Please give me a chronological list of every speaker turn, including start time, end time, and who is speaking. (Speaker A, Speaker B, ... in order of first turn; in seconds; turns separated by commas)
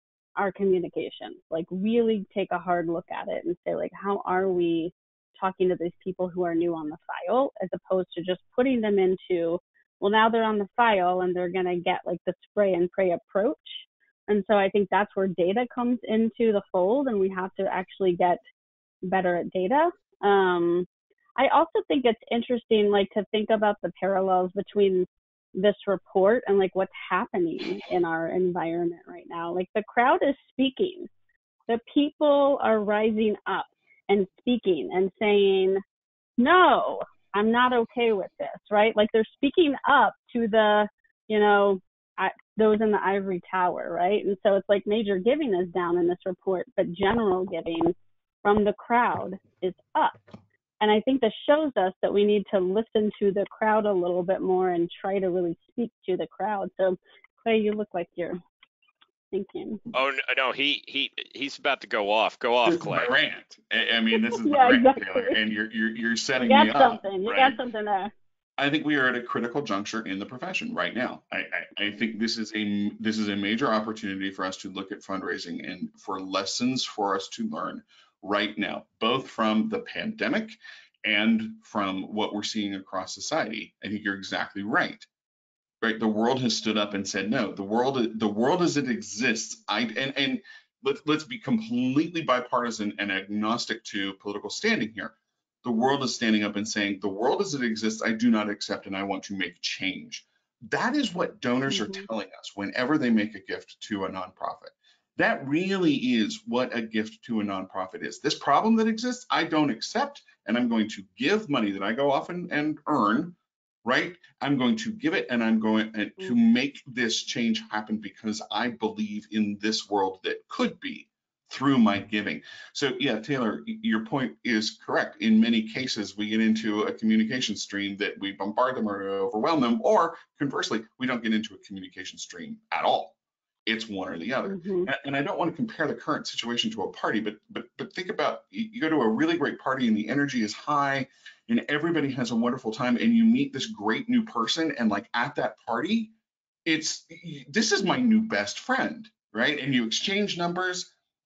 Speaker A: 0.3-18.4, Speaker A: 19.0-20.9, Speaker A: 21.4-31.1, Speaker A: 31.7-35.8, Speaker A: 36.4-50.2, Speaker A: 50.8-58.4, Speaker A: 59.3-59.8, Speaker B: 59.9-63.1, Speaker C: 62.6-67.6, Speaker A: 64.1-65.4, Speaker A: 66.4-68.1, Speaker C: 68.6-85.1, Speaker C: 85.8-146.1, Speaker A: 101.7-102.0, Speaker A: 134.5-134.9, Speaker C: 146.7-150.9